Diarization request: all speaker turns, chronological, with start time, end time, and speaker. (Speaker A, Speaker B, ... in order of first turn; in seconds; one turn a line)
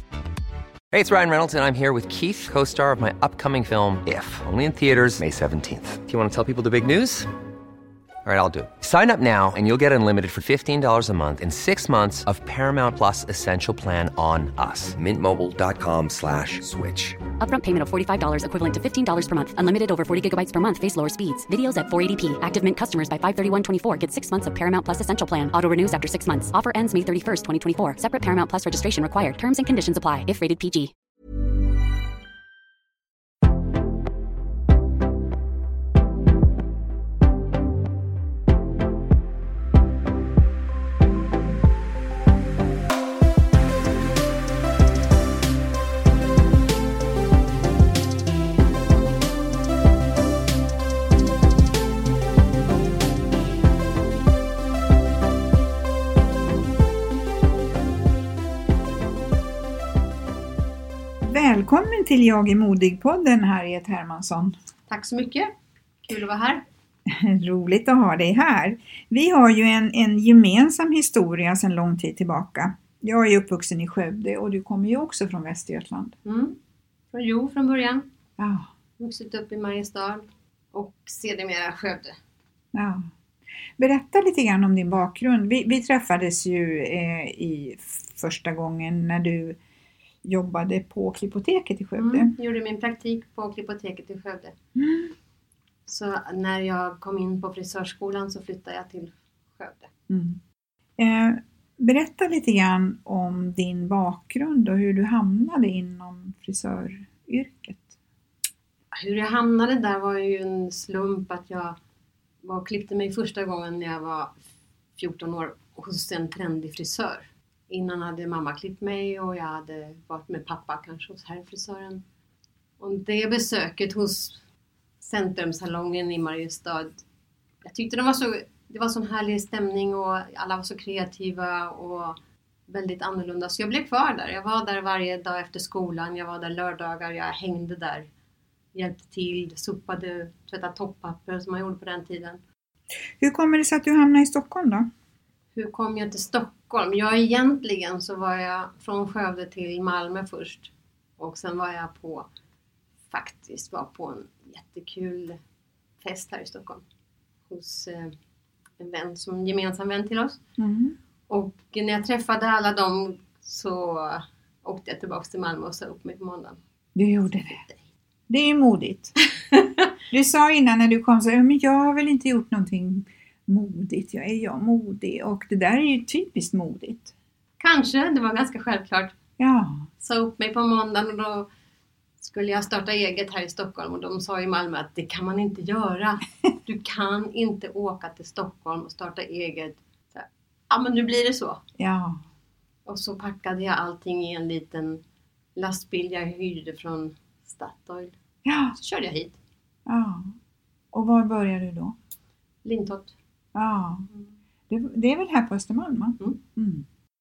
Speaker A: 0.9-7.3
Speaker A: 8.2-17.2
Speaker B: 17.4-30.9
Speaker C: 61.2-64.5
Speaker D: 64.9-65.5
Speaker D: 66.0-66.6
Speaker C: 67.1-76.2
Speaker D: 76.2-76.6
Speaker D: 77.1-78.1
Speaker C: 78.4-78.7
Speaker D: 79.0-82.2
Speaker C: 82.7-83.1
Speaker C: 83.8-89.6
Speaker C: 90.2-92.3
Speaker D: 92.0-94.5
Speaker C: 94.8-95.1
Speaker D: 95.9-99.9
Speaker C: 100.1-100.4
Speaker C: 101.0-108.0
Speaker D: 108.9-111.8
Speaker D: 112.4-114.4
Speaker D: 115.0-122.0
Speaker D: 122.8-124.4
Speaker D: 125.0-127.0
Speaker D: 127.6-132.2
Speaker D: 132.7-138.1
Speaker D: 138.7-142.4
Speaker C: 143.2-144.9
Speaker D: 145.5-152.2
Speaker D: 153.1-155.4
Speaker D: 156.0-156.8
Speaker D: 157.5-158.1
Speaker D: 158.8-160.4
Speaker C: 160.6-160.9
Speaker D: 161.3-166.6
Speaker C: 166.9-167.6
Speaker D: 167.5-167.8
Speaker C: 168.3-169.1
Speaker D: 169.5-169.8
Speaker C: 170.1-177.1
Speaker D: 177.6-179.1
Speaker C: 179.4-179.9
Speaker D: 180.0-181.5
Speaker D: 182.2-191.6
Speaker C: 191.8-192.2
Speaker D: 192.8-195.0
Speaker D: 195.6-198.1
Speaker C: 198.4-198.8
Speaker D: 198.7-199.3
Speaker C: 199.8-200.3
Speaker C: 200.9-201.9
Speaker D: 202.6-203.1
Speaker C: 203.5-204.1
Speaker C: 204.7-206.8